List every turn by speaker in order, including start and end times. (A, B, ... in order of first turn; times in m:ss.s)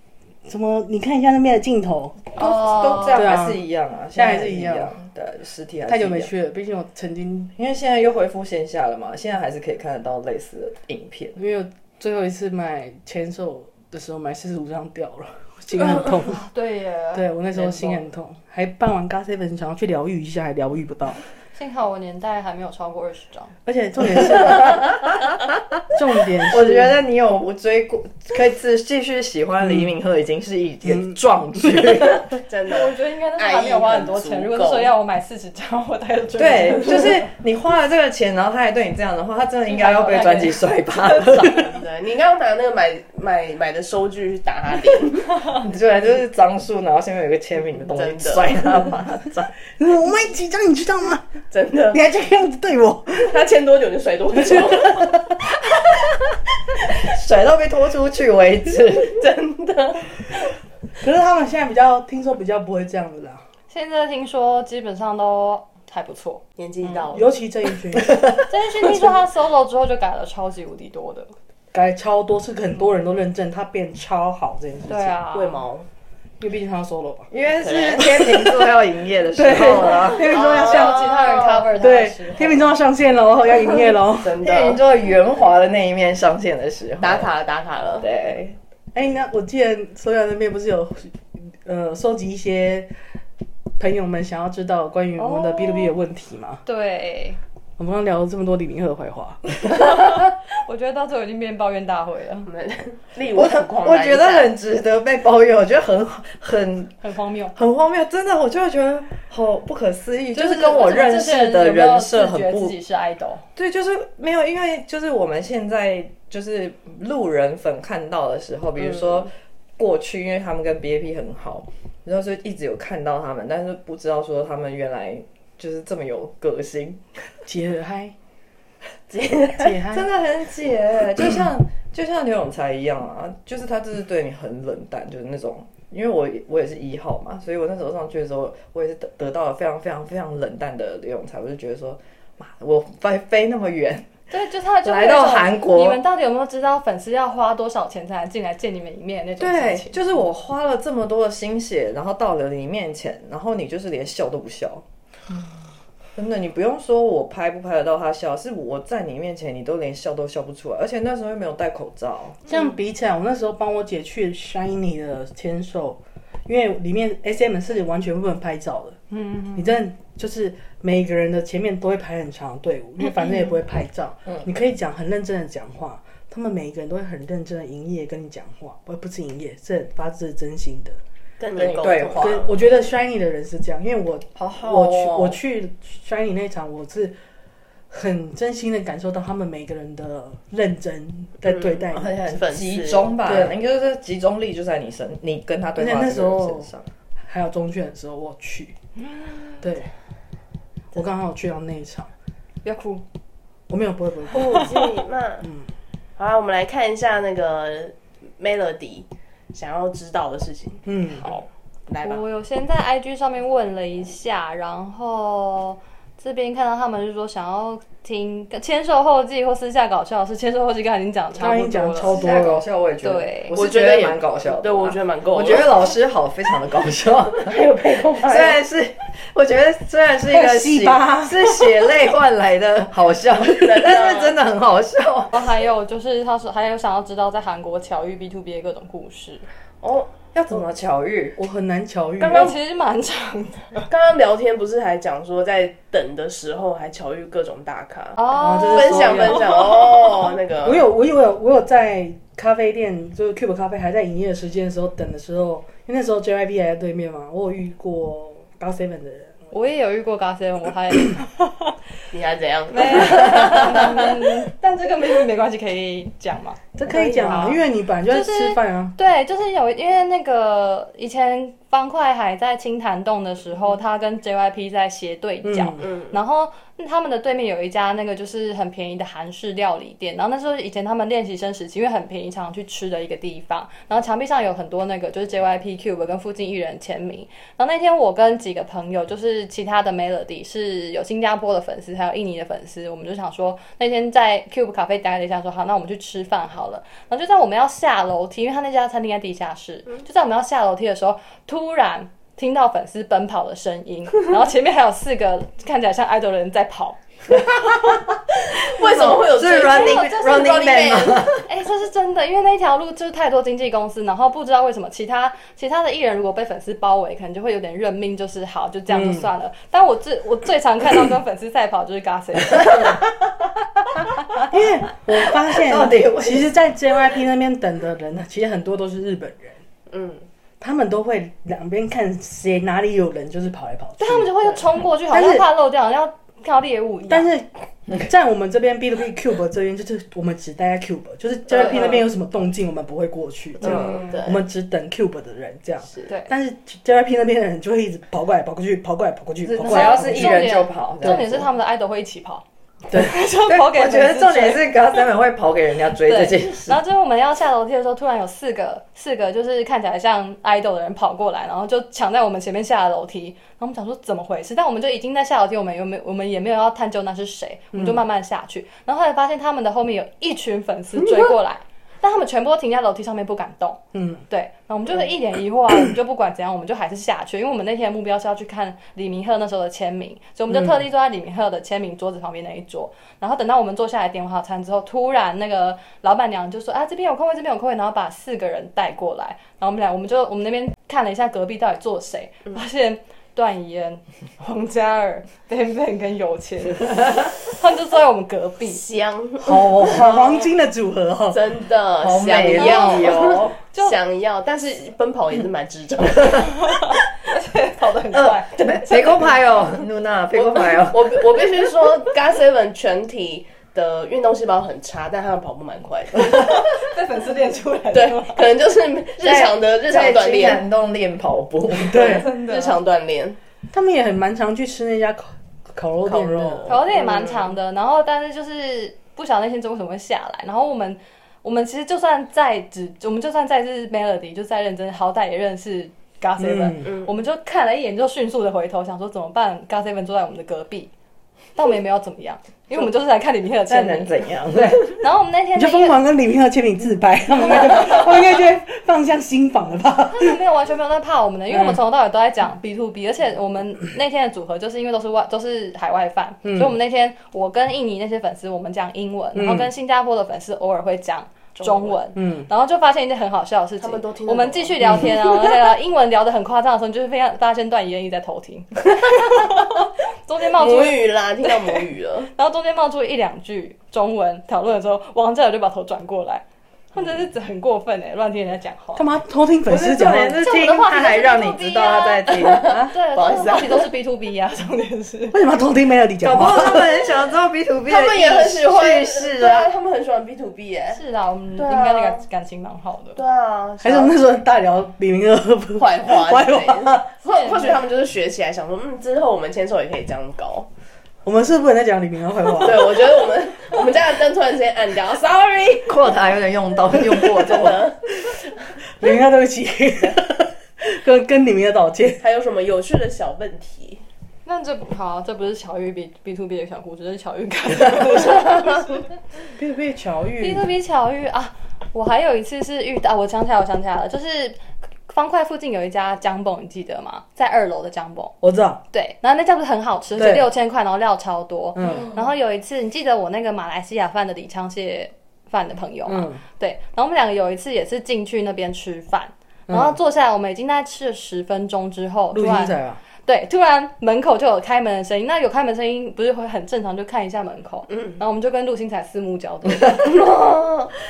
0:00.5-0:02.3 A
0:02.4-0:06.3 B
0:02.4-0:03.4 C
0:03.1-0:04.9 A
0:05.9-0:07.5 A
0:07.6-0:11.4 B
0:11.4-0:16.4 A
0:16.1-0:17.3 C
0:17.1-0:21.2 A
0:17.6-0:17.9 B
0:21.6-0:23.5 C
0:23.7-0:24.9 A
0:25.9-0:27.0 A
0:26.4-0:32.4 B
0:29.6-0:29.9 A
0:30.8-0:31.9 A
0:32.5-0:34.9 D
0:32.7-0:37.3 C
0:36.4-0:41.7 B
0:39.6-0:41.1 C
0:41.4-0:45.3 D
0:45.5-0:49.5 B
0:47.9-0:48.5 D
0:49.8-0:51.3 A
0:51.5-0:52.0 D
0:51.9-0:53.4 A
0:53.2-0:55.1 D
0:54.3-0:55.4 A
0:56.9-0:59.2 B
0:59.2-1:00.1 D
1:01.0-1:03.4 A
1:03.7-1:07.1 C
1:06.6-1:07.4 D
1:07.1-1:08.3 A
1:08.5-1:11.3 C
1:11.7-1:15.2 A
1:14.9-1:15.6 C
1:15.3-1:15.9 D
1:16.4-1:17.3 A
1:17.3-1:20.3 B
1:17.6-1:18.4 D
1:19.3-1:21.2 A
1:20.1-1:22.7 C
1:20.3-1:21.7 D
1:21.8-1:24.4 A
1:24.0-1:24.8 D
1:24.4-1:27.3 B
1:27.0-1:28.1 D
1:28.0-1:28.6 B
1:28.9-1:32.9 A
1:33.8-1:36.6 A
1:35.2-1:35.9 C
1:36.7-1:37.4 C
1:37.8-1:39.4 A
1:39.8-1:42.5 C
1:42.5-1:44.5 D
1:43.3-1:47.0 B
1:47.0-1:47.6 C
1:47.6-1:52.8 B
1:50.3-1:53.4 C
1:53.6-2:07.0 B
1:58.8-1:59.2 D
2:07.4-2:08.2 A
2:09.1-2:09.8 D
2:09.6-2:10.1 A
2:09.9-2:24.1 B
2:24.3-2:30.1 C
2:24.8-2:26.0 B
2:29.4-2:34.8 B
2:36.2-2:42.4 B
2:42.5-2:49.0 A
2:49.1-2:49.7 C
2:49.5-3:01.0 A
3:01.4-3:02.5 D
3:01.6-3:02.4 B
3:02.2-3:07.2 A
3:04.4-3:05.4 B
3:07.9-3:12.2 A
3:11.4-3:13.2 D
3:11.9-3:16.8 B
3:13.2-3:13.6 A
3:15.8-3:16.7 A
3:17.3-3:18.8 A
3:19.1-3:19.5 C
3:19.6-3:19.9 A
3:20.9-3:22.1 A
3:22.6-3:23.0 C
3:23.7-3:24.9 A
3:24.3-3:25.5 D
3:25.4-3:25.7 A
3:26.2-3:32.2 D
3:30.9-3:31.3 A
3:32.0-3:42.3 C
3:41.4-3:42.7 A
3:42.0-3:47.6 B
3:43.0-3:43.6 C
3:43.5-3:45.8 D
3:47.4-3:48.6 D
3:48.2-3:55.3 B
3:50.2-3:51.9 A
3:53.5-3:54.4 D
3:55.3-3:59.4 C
3:59.8-4:00.1 D
4:00.3-4:01.4 B
4:01.4-4:02.6 A
4:02.2-4:02.6 D
4:02.2-4:03.8 C
4:03.9-4:10.9 D
4:08.2-4:09.7 C
4:08.3-4:09.6 A
4:10.6-4:19.4 A
4:19.5-4:21.2 C
4:22.1-4:24.0 D
4:22.7-4:26.7 C
4:26.8-4:29.0 A
4:26.9-4:27.6 D
4:27.2-5:07.0 C
4:35.4-4:35.8 A
4:35.8-4:36.2 D
5:07.4-5:08.1 B
5:08.5-5:11.3 D
5:08.7-5:11.5 B
5:09.6-5:10.5 C
5:11.5-5:23.0 C
5:18.9-5:19.3 A
5:22.6-5:23.1 B
5:24.4-5:29.6 A
5:25.5-5:26.5 B
5:29.9-5:30.2 D
5:30.6-5:35.5 A
5:34.0-5:37.3 C
5:37.1-5:50.5 A
5:41.5-5:42.0 D
5:41.6-5:41.9 C
5:43.6-5:44.4 D
5:43.9-5:44.1 C
5:49.4-5:51.5 B
5:49.6-5:54.8 C
5:51.0-5:51.3 A
5:53.4-5:56.8 B
5:56.0-6:38.8 C
6:07.7-6:08.0 A
6:13.9-6:14.2 A
6:20.5-6:20.8 A
6:38.7-6:40.2 D
6:39.4-6:41.5 A
6:41.3-6:46.7 D
6:42.0-6:43.6 B
6:42.5-6:44.0 C
6:46.6-6:49.3 C
6:48.1-6:51.2 B
6:50.3-6:56.6 D
6:56.3-6:58.4 C
6:57.9-7:00.7 D
6:59.2-7:02.3 B
7:01.8-7:02.6 A
7:01.9-7:03.4 D
7:03.7-7:06.7 A
7:06.0-7:07.5 D
7:06.7-7:20.9 C
7:16.4-7:16.9 A
7:16.8-7:17.1 D
7:21.6-7:24.2 C
7:23.7-7:25.0 B
7:25.0-7:26.0 C
7:25.6-7:30.4 A
7:30.1-7:51.8 C
7:31.5-7:31.8 A
7:36.4-7:36.8 A
7:39.4-7:39.7 A
7:41.6-7:42.0 D
7:42.2-7:42.5 A
7:43.8-7:45.5 D
7:44.8-7:45.2 A
7:50.5-7:52.3 D
7:52.3-7:59.1 C
7:59.0-8:00.4 A
7:59.7-8:02.9 B
8:00.4-8:05.4 C
8:02.3-8:03.9 D
8:05.3-8:06.9 A
8:06.2-8:09.7 B
8:07.9-8:11.0 D
8:10.9-8:13.2 C
8:11.6-8:12.2 D
8:13.2-8:14.2 D
8:13.8-8:17.1 A
8:15.8-8:20.7 D
8:17.3-8:17.8 C
8:21.2-8:23.1 A
8:22.6-8:26.1 D
8:25.9-8:27.9 B
8:26.9-8:28.6 D
8:29.0-8:32.2 A
8:32.2-8:34.0 D
8:34.5-8:38.9 C
8:39.6-8:40.7 A
8:40.4-8:48.4 C
8:48.4-8:48.8 A
8:48.9-9:10.2 C
8:50.2-8:50.5 A
8:51.8-8:52.1 A
8:56.1-8:56.4 A
8:59.7-9:00.0 A
9:02.3-9:03.0 A
9:07.9-9:08.2 D
9:10.1-9:10.9 D